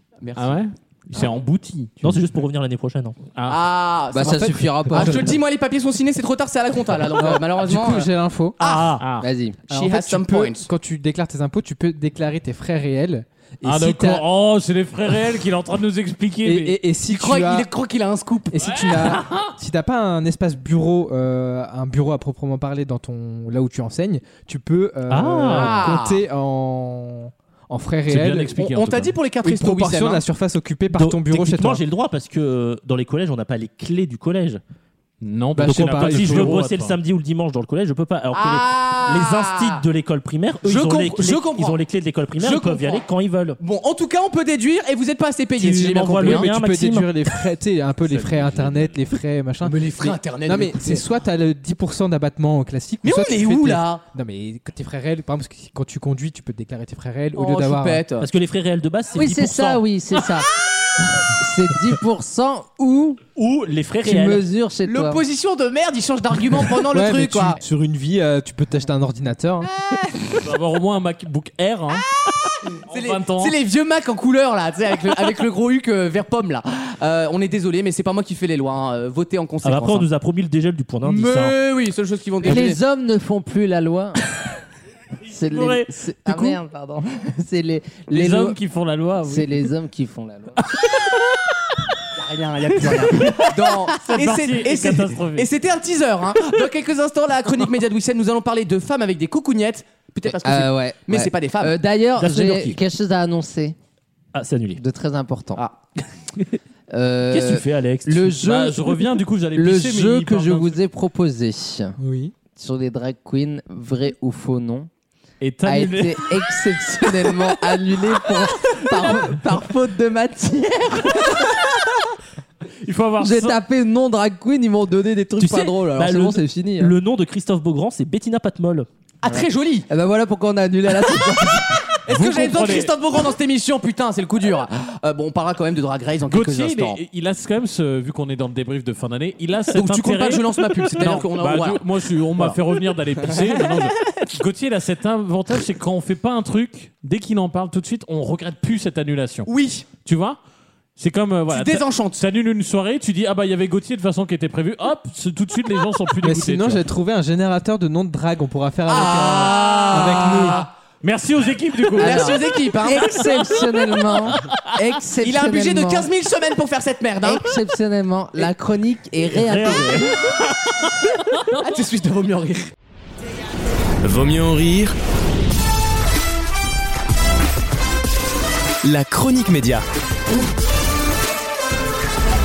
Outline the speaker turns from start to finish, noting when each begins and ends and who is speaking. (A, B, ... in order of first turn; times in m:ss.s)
0:00.2-0:00.6 A
0:00.4-0:02.2 B
0:02.0-0:03.2 C
0:03.4-0:03.6 B
0:03.5-0:09.0 A
0:04.1-0:05.4 D
0:04.9-0:05.2 E
0:07.2-0:08.6 E
0:08.6-0:09.0 C
0:09.0-0:09.3 B
0:09.2-0:09.6 D
0:09.7-0:10.7 A
0:09.7-0:14.2 E
0:13.6-0:16.8 B
0:16.4-0:17.7 E
0:17.1-0:19.1 A
0:18.5-0:28.6 E
0:18.6-0:19.6 B
0:25.1-0:25.8 C
0:25.5-0:26.2 A
0:28.1-0:29.2 B
0:28.6-0:30.2 A
0:29.4-0:31.8 E
0:30.9-0:34.6 C
0:35.2-0:37.0 B
0:35.6-0:36.6 E
0:35.6-0:43.6 C
0:38.3-0:39.8 A
0:40.6-0:41.8 A
0:42.4-0:43.0 A
0:43.6-0:46.5 A
0:45.6-0:47.1 C
0:45.6-0:58.0 E
0:48.0-0:48.9 B
0:49.6-0:51.1 A
0:53.0-0:54.0 A
0:57.4-0:58.3 A
0:58.2-0:59.8 C
0:59.2-1:00.5 D
1:01.4-1:03.2 D
1:03.4-1:04.5 C
1:04.0-1:05.2 D
1:04.9-1:07.6 A
1:06.9-1:09.7 E
1:09.7-1:10.4 A
1:10.4-1:12.1 B
1:12.7-1:20.1 A
1:12.9-1:13.6 B
1:19.6-1:21.6 C
1:21.0-1:22.8 A
1:22.4-1:24.2 D
1:25.3-1:28.6 D
1:25.5-1:26.6 B
1:28.1-1:29.6 B
1:29.2-1:30.6 D
1:32.1-1:41.8 A
1:33.2-1:35.5 B
1:40.3-1:43.8 D
1:42.2-1:42.8 C
1:44.3-1:44.8 C
1:44.8-1:45.6 D
1:46.9-1:52.0 D
1:47.3-1:48.4 C
1:48.4-1:50.8 B
1:52.0-1:52.3 E
1:52.6-1:54.9 D
1:55.4-1:56.4 B
1:55.6-2:01.7 D
2:02.8-2:03.6 B
2:03.2-2:07.0 D
2:05.4-2:08.9 C
2:09.2-2:09.9 A
2:09.9-2:11.8 D
2:12.0-2:17.0 A
2:12.1-2:12.9 B
2:16.3-2:29.5 B
2:19.7-2:22.6 A
2:23.2-2:23.9 A
2:29.5-2:29.9 A
2:30.0-2:30.4 B
2:31.0-2:36.8 B
2:31.5-2:32.2 A
2:36.2-2:40.6 E
2:38.9-2:40.7 A
2:41.0-2:43.6 B
2:42.0-2:43.3 A
2:42.0-2:46.1 D
2:45.2-2:47.6 A
2:47.2-2:50.2 D
2:49.3-2:50.0 C
2:51.5-2:52.7 A
2:54.0-2:55.0 F
2:58.8-2:59.8 F